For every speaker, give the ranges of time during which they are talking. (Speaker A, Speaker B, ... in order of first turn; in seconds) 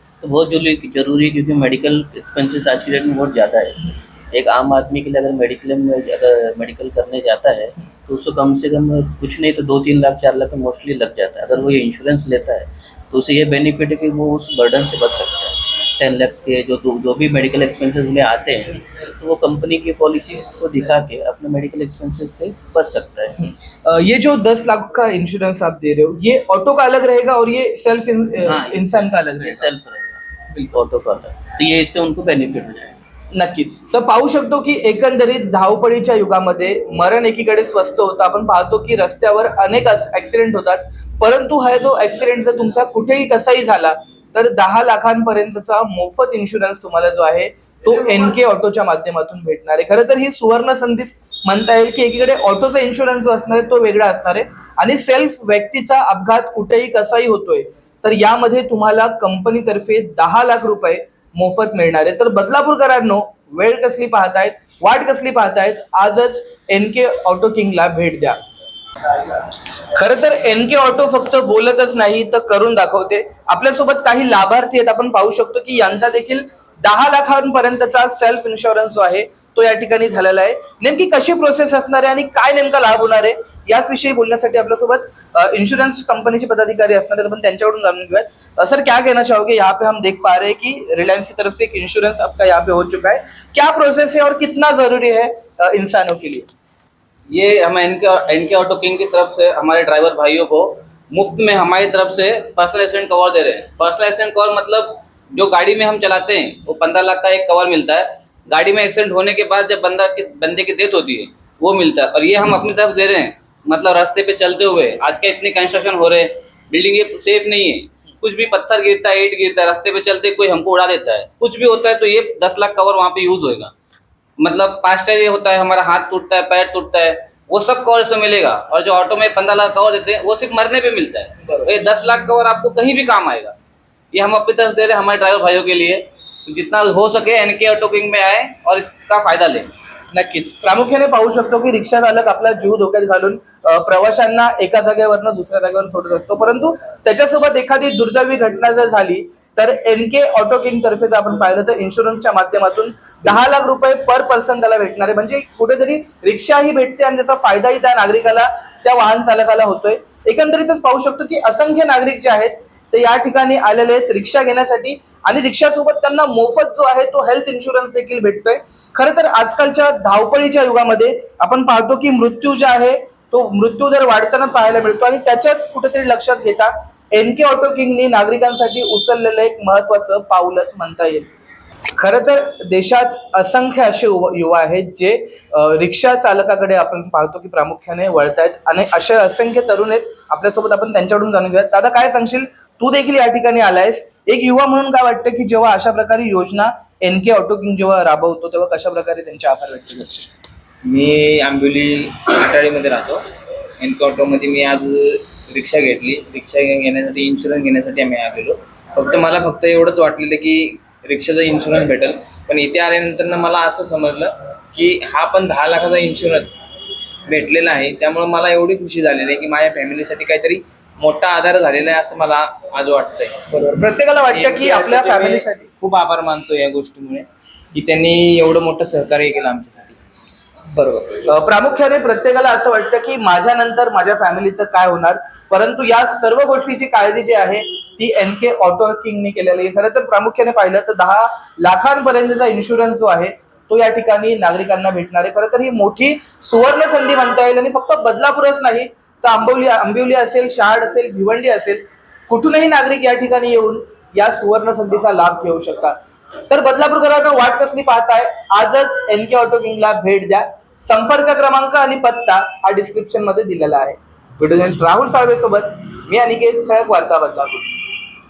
Speaker A: 0.2-23.4, 28.4-33.0
Speaker B: 23.4-29.7, 33.3-68.4, 69.2-96.5, 140.1-181.2, 182.0-200.3, 223.5-225.6, 230.7-255.9, 256.5-267.7
Speaker C: 97.3-123.7, 124.4-133.5, 134.1-139.7
Speaker D: 200.8-203.2, 203.8-216.5, 217.3-223.6, 224.3-230.0